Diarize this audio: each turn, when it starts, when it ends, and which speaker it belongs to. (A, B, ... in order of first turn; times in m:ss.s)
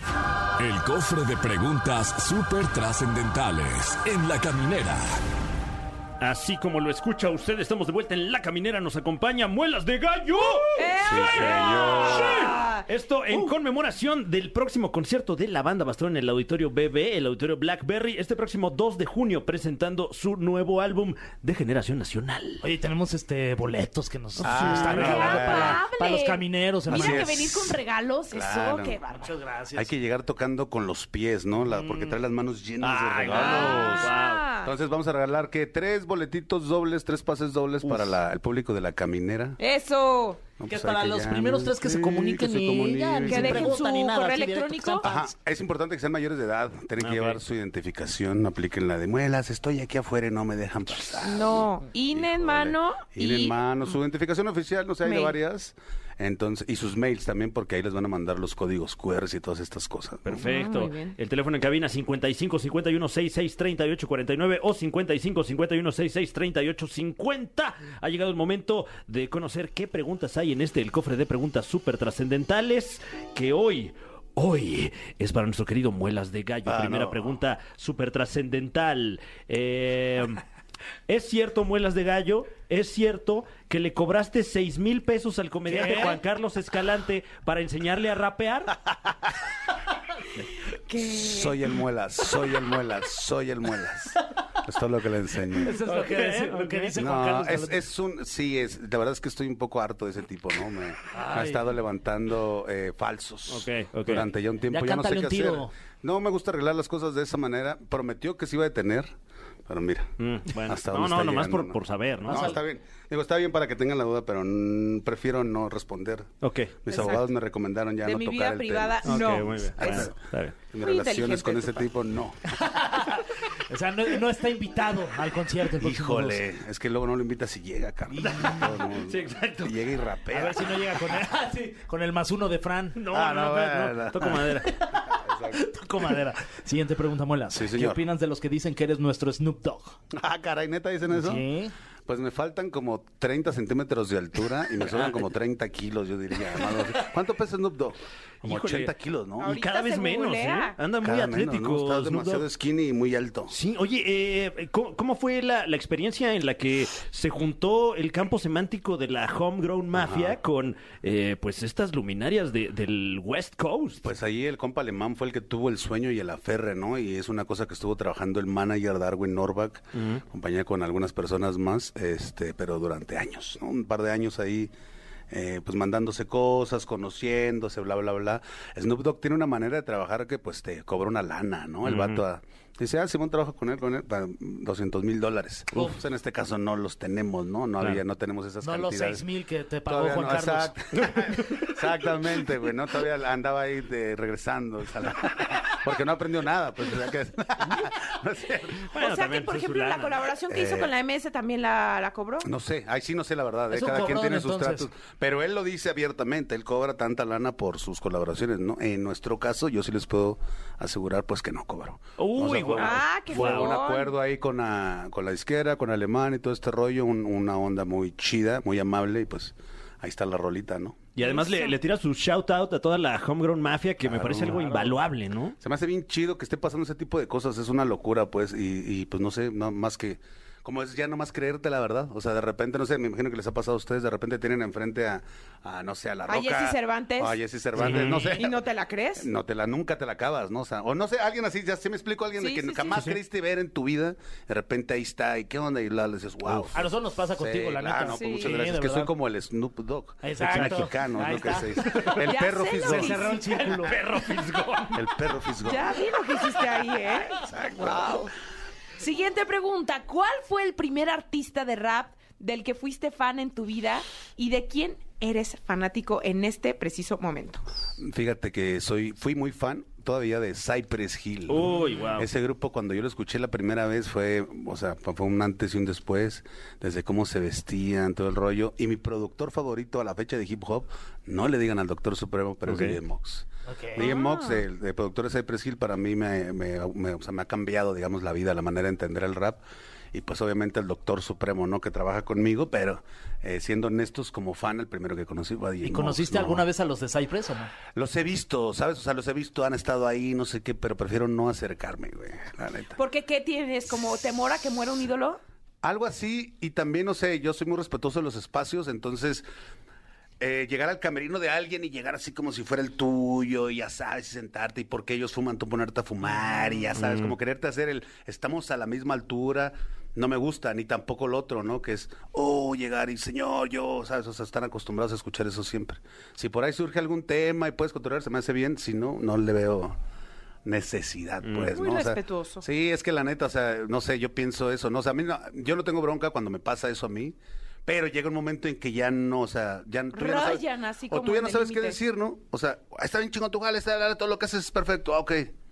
0:00.6-0:05.2 A
0:06.2-0:22.6 B
0:10.4-0:12.8 C
0:11.0-0:12.5 D
0:22.6-0:27.4 E
0:24.4-0:25.8 D
0:24.4-0:25.4 B
0:24.9-0:29.3 C
0:26.9-0:27.8 D
0:28.3-0:29.0 D
0:29.1-0:29.9 E
0:29.7-0:39.6 D
0:31.7-0:32.1 E
0:32.8-0:34.4 B
0:33.3-0:34.7 C
0:39.6-0:40.4 C
0:40.6-0:43.8 D
0:40.7-0:45.3 E
0:43.3-0:45.1 C
0:45.0-1:00.4 D
0:47.0-0:47.4 B
0:51.2-0:53.6 C
0:55.0-0:55.3 C
1:00.2-1:20.4 B
1:00.4-1:01.2 C
1:16.6-1:17.4 D
1:21.1-1:28.8 B
1:25.7-1:26.2 E
1:30.9-1:31.5 C
1:31.0-1:35.8 D
1:35.6-1:37.8 E
1:35.8-1:37.0 B
1:37.0-1:49.1 D
1:41.1-1:41.7 E
1:43.5-1:44.3 B
1:44.7-1:45.7 E
1:49.7-2:00.2 D
1:50.2-1:52.6 B
1:52.3-1:52.6 E
1:56.4-1:56.8 B
1:56.9-1:57.2 C
1:58.0-2:00.1 C
1:59.0-2:00.6 B
2:00.7-2:02.8 D
2:00.8-2:01.8 C
2:02.6-2:06.4 E
2:05.8-2:11.0 D
2:08.1-2:08.7 E
2:08.3-2:09.8 B
2:10.3-2:13.0 E
2:13.0-2:14.8 B
2:13.1-2:15.6 D
2:14.7-2:20.0 E
2:17.5-2:18.0 D
2:20.1-2:21.4 D
2:21.1-2:21.7 E
2:22.1-2:29.6 D
2:24.8-2:25.2 B
2:28.4-2:32.4 B
2:29.4-2:30.8 C
2:31.0-2:33.5 D
2:33.5-2:44.1 B
2:39.9-2:40.4 D
2:44.0-2:54.7 D
2:49.9-2:50.2 B
2:55.3-3:09.2 D
3:01.8-3:02.2 B
3:08.6-3:10.7 E
3:09.8-3:18.9 D
3:18.9-3:20.2 B
3:18.9-3:22.5 C
3:20.5-3:20.9 D
3:22.4-3:41.0 D
3:23.7-3:24.9 E
3:32.2-3:33.8 B
3:32.8-3:34.1 C
3:41.2-3:45.6 B
3:41.2-3:41.7 C
3:44.0-3:44.8 D
3:44.4-3:44.9 E
3:45.6-4:13.4 D
3:56.3-3:57.4 C
3:57.8-3:58.4 B
3:58.3-3:59.3 C
4:02.4-4:03.0 C
4:06.7-4:09.1 E
4:08.1-4:08.6 C
4:10.2-4:12.2 E
4:10.5-4:10.8 B
4:12.2-4:13.7 C
4:12.8-4:15.0 E
4:14.2-4:14.6 B
4:14.9-4:16.0 D
4:15.6-4:18.3 C
4:17.4-4:18.3 D
4:19.0-4:27.6 C
4:28.0-4:49.6 D
4:31.5-4:32.3 B
4:42.7-4:43.0 B
4:43.7-4:44.1 E
4:44.0-4:44.6 C
4:50.1-4:56.7 D
4:55.8-4:57.7 E
4:57.9-5:03.0 D
5:03.0-5:05.4 C
5:05.8-5:09.4 D
5:10.4-5:30.0 D
5:16.9-5:17.3 B
5:30.6-5:45.5 D
5:31.4-5:31.7 B
5:31.7-5:32.6 C
5:40.1-5:42.0 C